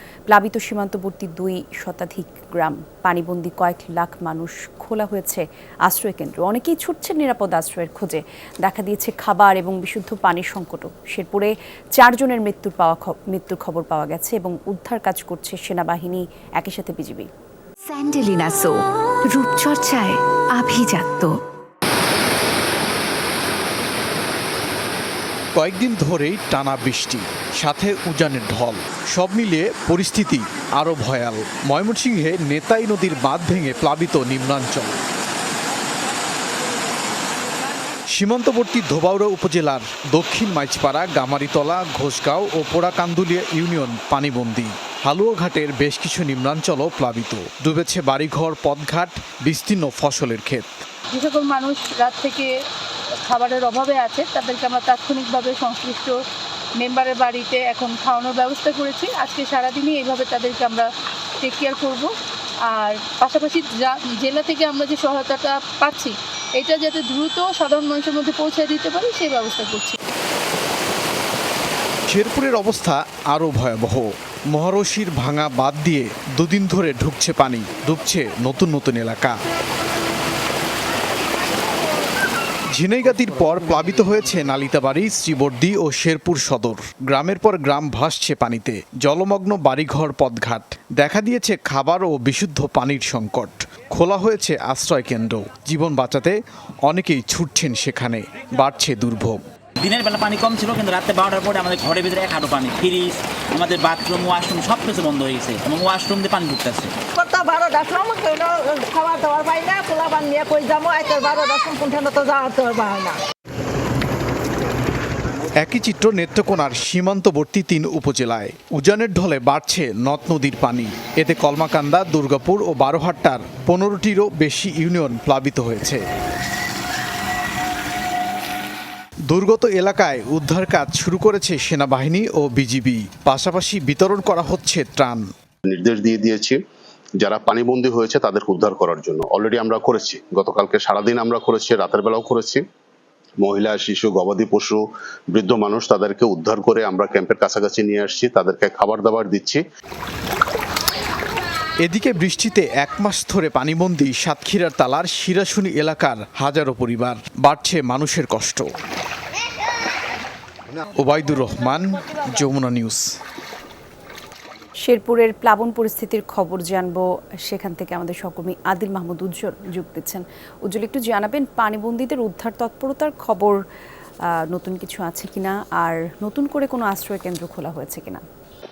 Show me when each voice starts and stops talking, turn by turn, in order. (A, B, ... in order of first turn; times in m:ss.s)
0:00.3-0:17.3 A
0:17.9-0:21.4 B
0:25.5-0:35.0 C
0:38.1-0:50.8 C
0:51.1-0:52.5 D
0:53.2-0:56.2 D
0:56.8-1:00.9 D
1:01.4-1:02.1 D
1:02.7-1:10.0 D
1:12.1-1:19.3 C
1:22.7-1:39.4 C
1:39.8-1:47.0 E
1:47.1-1:53.2 F
1:55.6-2:06.0 C
2:09.3-2:15.2 C
2:15.7-2:16.6 G
2:17.2-2:22.6 G
2:23.4-2:29.6 G
2:31.8-2:38.6 C
2:41.0-2:43.0 C
2:44.8-2:53.6 A
2:54.4-2:58.2 A